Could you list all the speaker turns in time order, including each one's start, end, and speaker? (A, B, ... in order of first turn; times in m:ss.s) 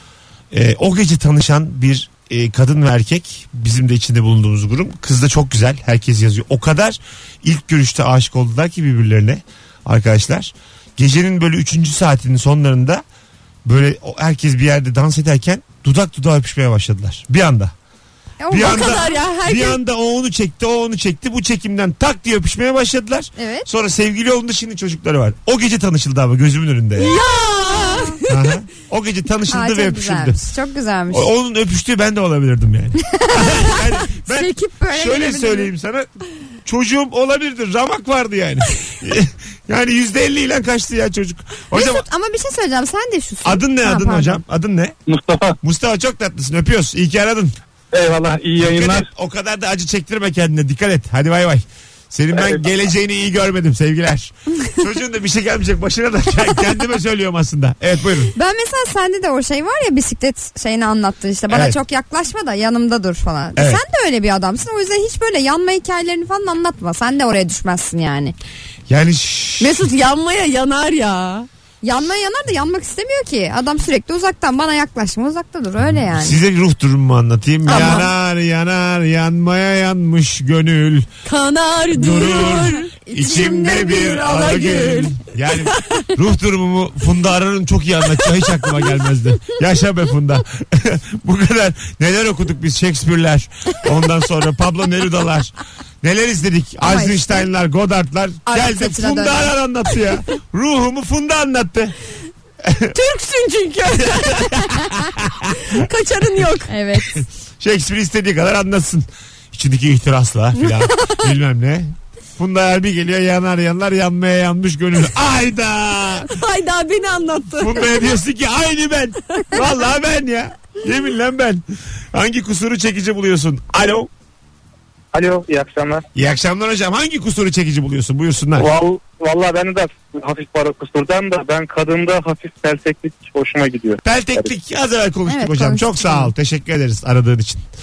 0:00.5-0:13.0 A
0:13.6-0:17.7 A
0:18.4-0:19.1 B
0:18.5-0:27.2 A
0:18.6-0:19.8 C
0:23.4-0:23.7 B
0:27.0-0:28.4 C
0:27.6-0:28.2 B
0:28.3-0:30.4 A
0:29.5-0:31.3 B
0:31.1-0:36.1 A
0:33.0-0:35.7 B
0:36.6-0:42.0 A
0:41.7-0:44.4 B
0:43.4-0:44.9 A
0:45.1-0:45.6 D
0:45.6-0:47.5 A
0:47.9-0:49.1 D
0:48.6-0:58.3 A
0:52.4-0:52.6 D
0:58.3-1:08.3 B
1:01.5-1:01.8 A
1:03.6-1:03.8 A
1:08.9-1:09.9 A
1:09.6-1:11.5 C
1:11.8-1:16.4 B
1:16.1-1:21.1 A
1:17.7-1:18.1 C
1:17.7-1:18.0 B
1:21.2-1:26.1 C
1:21.9-1:41.9 A
1:22.4-1:24.2 B
1:36.8-1:37.5 B
1:38.5-1:39.5 B
1:42.6-1:42.9 A
1:42.9-1:44.6 C
1:44.0-1:45.7 A
1:45.6-1:46.7 C
1:46.7-1:47.2 B
1:47.2-1:56.3 A
1:56.3-1:57.9 C
1:57.6-2:04.1 A
2:05.1-2:06.0 E
2:06.1-2:08.7 A
2:08.6-2:14.5 E
2:14.0-2:17.6 A
2:15.3-2:16.3 B